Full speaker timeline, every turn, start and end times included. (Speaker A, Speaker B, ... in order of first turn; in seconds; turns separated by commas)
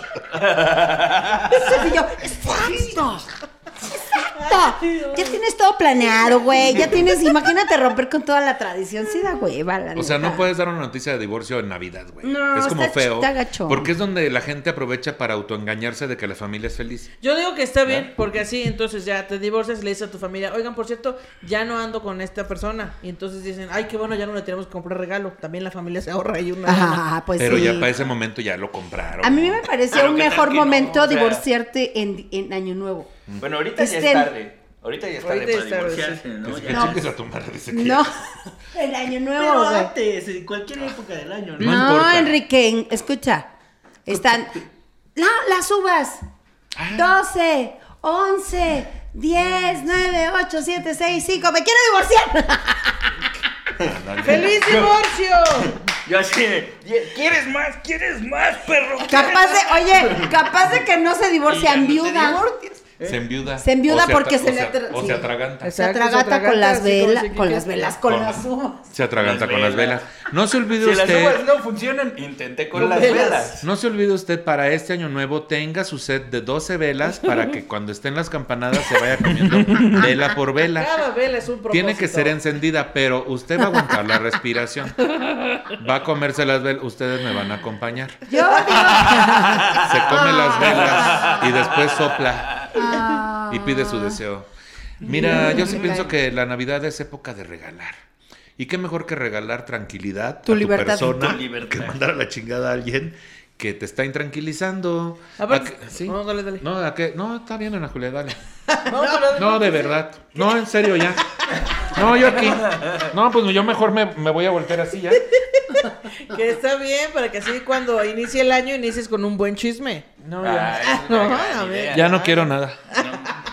Speaker A: 0.3-1.7, Speaker B: 1.5-3.3, Speaker B: 3.9-10.5, Speaker C: 9.9-17.1, Speaker B: 12.2-13.9, Speaker D: 17.2-27.0, Speaker B: 26.6-27.9, Speaker C: 27.4-29.7, Speaker B: 29.2-33.1, Speaker A: 29.9-31.4, Speaker A: 33.4-37.0, Speaker B: 33.8-34.3, Speaker D: 35.2-36.2, Speaker C: 36.5-38.1, Speaker B: 36.7-37.0, Speaker B: 37.7-38.2, Speaker B: 38.7-39.9, Speaker A: 39.4-41.9, Speaker C: 41.6-42.4, Speaker B: 41.6-43.5, Speaker B: 44.1-46.2, Speaker C: 46.8-47.2, Speaker B: 47.0-53.3, Speaker C: 53.8-54.6, Speaker A: 53.8-55.0, Speaker D: 54.2-55.8, Speaker A: 55.6-60.4, Speaker B: 59.1-62.8, Speaker A: 61.5-62.5, Speaker C: 63.0-65.8, Speaker B: 63.6-68.9, Speaker D: 65.6-67.9, Speaker C: 68.1-71.4, Speaker A: 69.2-70.0, Speaker A: 70.8-73.6, Speaker D: 72.8-73.6, Speaker C: 73.6-80.9, Speaker A: 79.5-80.0, Speaker D: 80.8-82.3, Speaker C: 81.7-85.0, Speaker C: 85.8-88.2, Speaker B: 88.3-91.5, Speaker A: 89.0-90.0, Speaker C: 89.8-92.6, Speaker A: 90.6-92.7, Speaker B: 92.7-94.2, Speaker C: 93.5-94.5, Speaker B: 95.0-96.1, Speaker C: 95.0-98.0, Speaker C: 98.6-108.4, Speaker B: 100.5-101.2, Speaker A: 101.0-102.0, Speaker D: 105.4-106.6, Speaker D: 108.7-109.9, Speaker C: 109.3-111.2, Speaker C: 111.9-115.2, Speaker A: 112.4-113.1, Speaker D: 115.4-120.0, Speaker C: 120.2-121.4, Speaker A: 120.4-123.4, Speaker D: 120.8-122.4, Speaker C: 121.9-122.8, Speaker D: 122.9-123.3